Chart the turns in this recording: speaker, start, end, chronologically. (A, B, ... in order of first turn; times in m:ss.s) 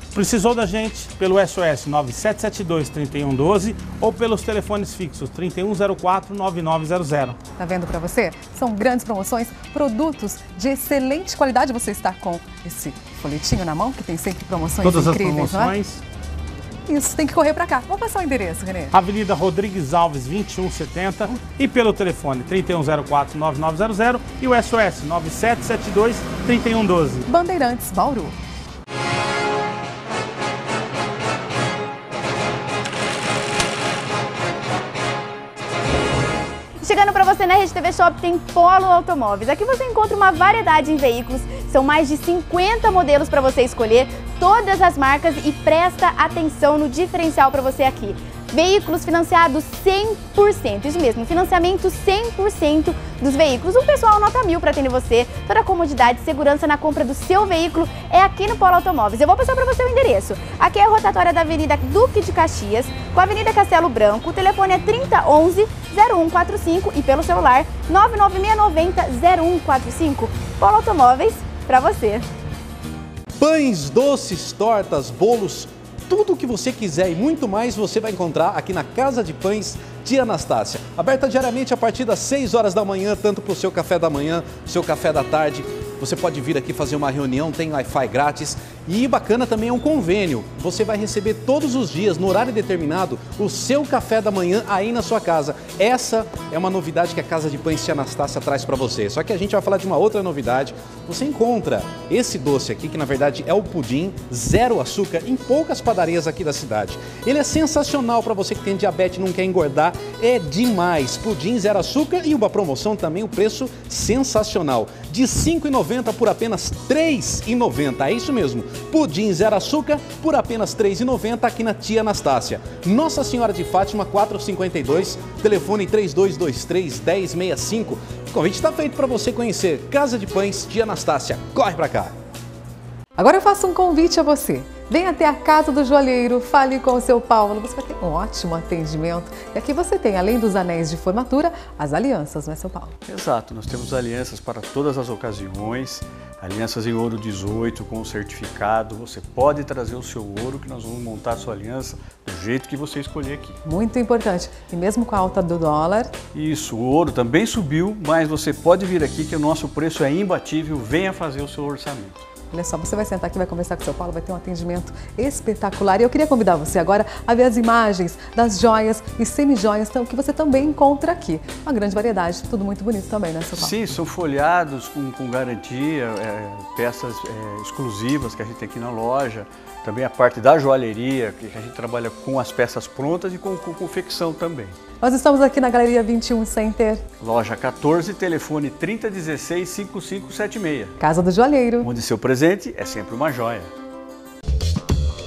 0:00.1-0:07.4 A
0:07.6-0:15.8 B
0:14.8-0:16.0 A
0:16.9-0:18.9 B
0:18.9-0:27.2 A
0:27.3-0:28.4 B
0:36.8-1:12.3 C
1:13.4-2:12.1 D
2:13.2-2:22.9 B
2:23.1-2:33.6 E
2:33.6-2:36.1 B
2:36.3-2:42.3 E
2:42.5-2:54.0 B
2:53.5-3:04.8 E
3:05.0-3:07.0 B
3:07.2-3:11.0 E
3:11.0-3:11.9 B
3:11.8-3:13.7 E